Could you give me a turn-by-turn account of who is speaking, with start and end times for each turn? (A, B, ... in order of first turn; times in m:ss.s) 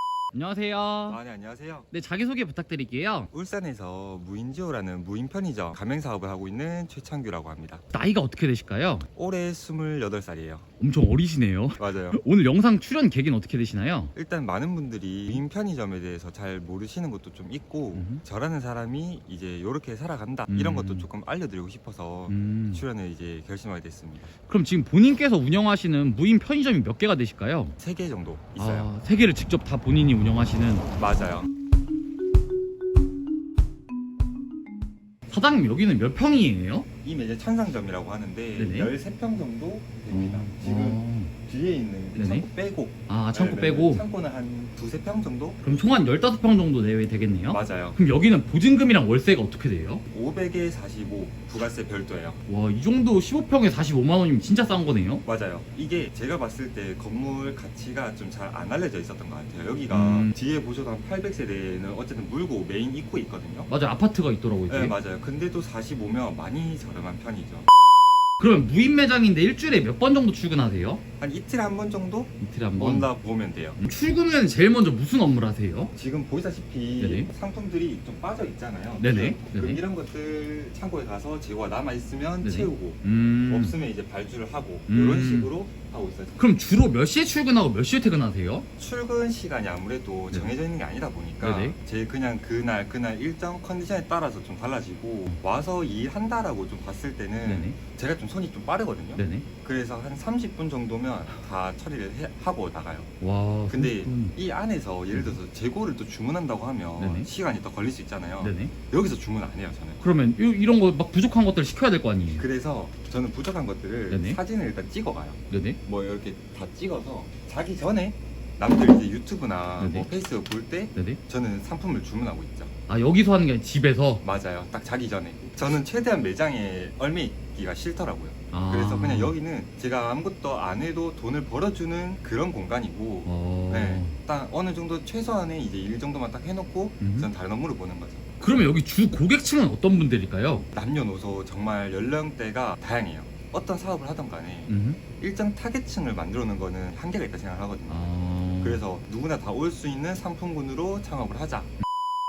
0:00.3-0:01.2 A
0:01.1-0:01.9 B
0:01.9-0:03.3 A
0:03.3-0:07.8 B
0:07.9-0:09.1 A
0:09.1-0:10.7 B
0:10.8-0:14.1 A
0:11.8-0:12.2 B
0:14.1-0:24.3 B
0:17.9-0:18.2 A
0:20.5-0:21.1 A
0:22.3-0:22.8 A
0:24.5-0:27.8 A
0:27.8-0:28.9 B
0:28.6-0:30.9 A
0:31.0-0:31.5 B
0:35.3-0:36.9 A
0:37.0-0:45.6 B
0:38.6-0:38.9 A
0:40.1-0:41.3 A
0:42.1-0:42.5 A
0:43.1-0:44.0 A
0:45.6-0:50.0 A
0:47.5-0:48.0 B
0:50.1-0:52.4 B
0:52.5-0:55.2 A
0:55.2-1:03.7 B
0:59.9-1:00.3 A
1:03.7-1:04.9 A
1:04.7-1:07.7 B
1:08.4-1:11.0 A
1:11.2-1:13.8 B
1:12.4-1:13.1 A
1:13.8-1:15.9 A
1:15.9-1:26.4 B
1:17.0-1:17.3 A
1:19.0-1:19.8 A
1:22.4-1:23.8 A
1:24.9-1:25.5 A
1:26.4-1:28.6 A
1:28.8-1:43.1 B
1:31.4-1:31.8 A
1:37.4-1:37.8 A
1:39.2-1:39.4 A
1:43.2-1:44.3 A
1:43.7-1:50.0 B
1:45.1-1:45.4 A
1:47.0-1:47.3 A
1:48.4-1:48.7 A
1:50.0-1:52.4 A
1:52.4-2:02.7 B
1:54.1-1:54.4 A
1:55.5-1:55.8 A
1:59.8-2:00.1 A
2:00.9-2:01.2 A
2:02.9-2:04.2 A
2:04.2-2:18.2 B
2:08.5-2:09.3 A
2:13.2-2:14.2 A
2:17.0-2:17.3 A
2:18.4-2:20.7 A
2:20.7-2:31.7 B
2:24.7-2:25.0 A
2:27.9-2:28.8 A